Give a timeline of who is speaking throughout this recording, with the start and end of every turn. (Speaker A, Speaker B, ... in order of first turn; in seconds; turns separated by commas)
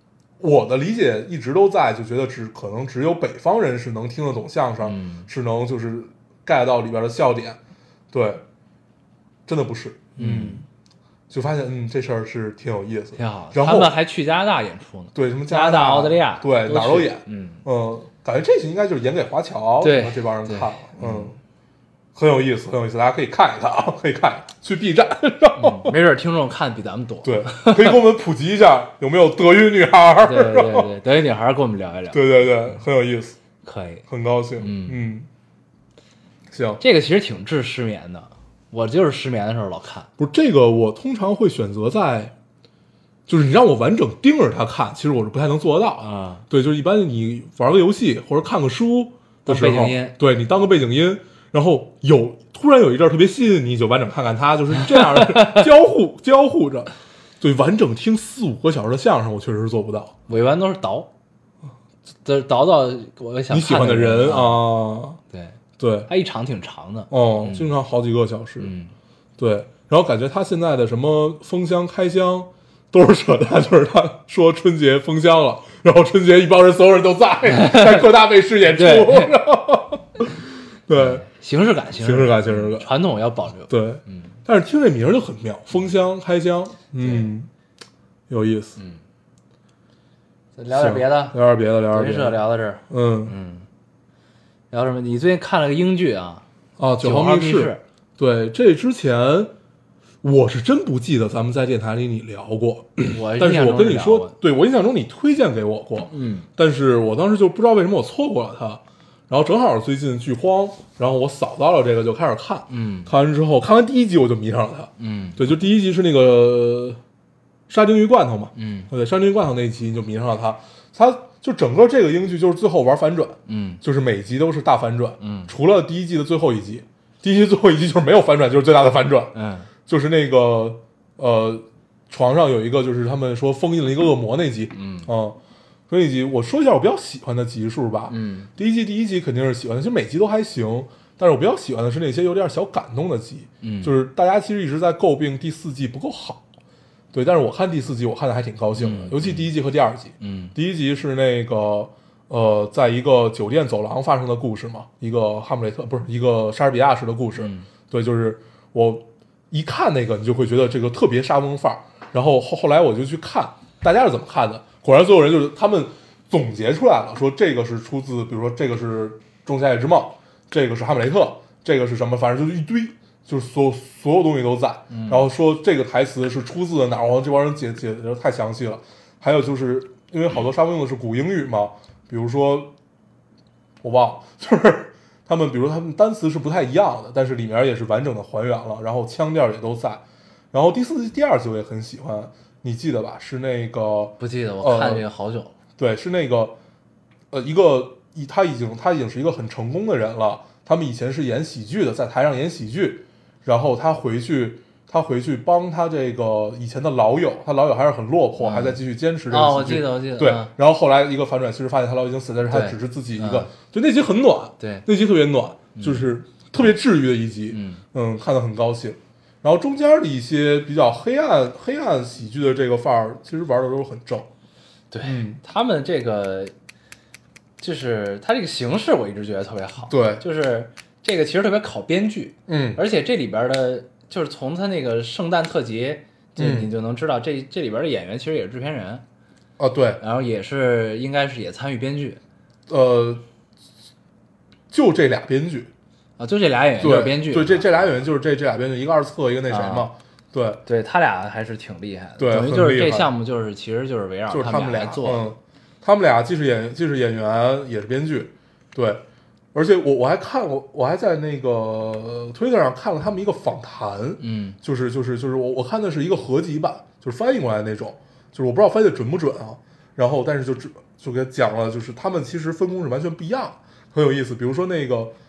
Speaker A: 0.4-7.6, Speaker B: 4.8-5.3, Speaker A: 8.1-8.4, Speaker A: 9.5-10.7, Speaker B: 10.2-10.6, Speaker A: 11.3-13.9, Speaker B: 13.2-17.6, Speaker A: 15.1-21.4, Speaker B: 19.8-21.4, Speaker A: 22.1-25.9, Speaker B: 25.6-28.0, Speaker A: 27.2-30.9, Speaker B: 30.2-32.8, Speaker A: 32.1-33.4, Speaker B: 33.6-34.0, Speaker A: 34.1-35.3, Speaker B: 34.6-35.0, Speaker A: 36.5-36.8, Speaker B: 36.8-40.1, Speaker A: 40.2-42.3, Speaker A: 43.3-60.1, Speaker B: 46.0-46.5, Speaker B: 49.5-50.2, Speaker B: 54.9-55.7, Speaker B: 60.3-61.1, Speaker B: 62.2-64.7, Speaker A: 63.5-65.2, Speaker B: 65.3-67.7, Speaker A: 65.8-66.1, Speaker A: 67.1-68.7, Speaker B: 68.6-68.9, Speaker A: 69.4-80.3, Speaker B: 77.5-78.1, Speaker B: 78.7-79.3, Speaker A: 80.9-81.2, Speaker B: 80.9-84.4, Speaker A: 82.0-82.9, Speaker A: 83.7-87.5, Speaker B: 87.0-87.3, Speaker A: 88.3-88.8, Speaker B: 88.8-89.0, Speaker B: 90.6-91.4, Speaker A: 90.7-92.4, Speaker B: 91.9-93.7, Speaker A: 92.9-93.3, Speaker B: 94.7-96.4, Speaker A: 96.8-99.5, Speaker B: 97.0-97.8, Speaker A: 100.2-117.0, Speaker B: 103.1-104.3, Speaker B: 106.1-106.5, Speaker B: 112.7-113.1, Speaker B: 115.0-115.4, Speaker A: 117.7-129.3, Speaker B: 118.5-118.9, Speaker B: 123.5-123.8, Speaker B: 125.2-125.5, Speaker B: 129.3-129.7, Speaker A: 129.9-135.4, Speaker B: 134.7-135.1, Speaker A: 135.9-146.4, Speaker B: 138.1-138.5, Speaker B: 143.6-143.9, Speaker A: 147.1-182.7, Speaker B: 148.8-149.5, Speaker B: 150.2-150.5, Speaker B: 157.4-157.7, Speaker B: 174.9-175.3, Speaker A: 183.8-195.1, Speaker B: 194.2-195.6, Speaker A: 195.8-196.6, Speaker A: 197.3-224.3, Speaker B: 208.4-208.8, Speaker B: 209.3-210.5, Speaker B: 212.5-213.5, Speaker B: 214.6-214.8, Speaker B: 215.8-216.1, Speaker B: 217.5-217.8, Speaker B: 224.9-226.5, Speaker A: 225.0-225.4, Speaker B: 227.6-239.0, Speaker A: 229.9-230.2, Speaker A: 232.5-232.8, Speaker A: 236.4-236.7, Speaker A: 239.6-240.0, Speaker B: 240.0-242.2, Speaker A: 242.7-243.2, Speaker A: 244.7-245.7, Speaker B: 246.2-247.8, Speaker A: 246.8-250.6, Speaker B: 249.5-249.9, Speaker B: 250.7-255.3, Speaker A: 252.2-253.1, Speaker A: 254.3-259.0, Speaker A: 259.5-275.1, Speaker B: 264.2-264.6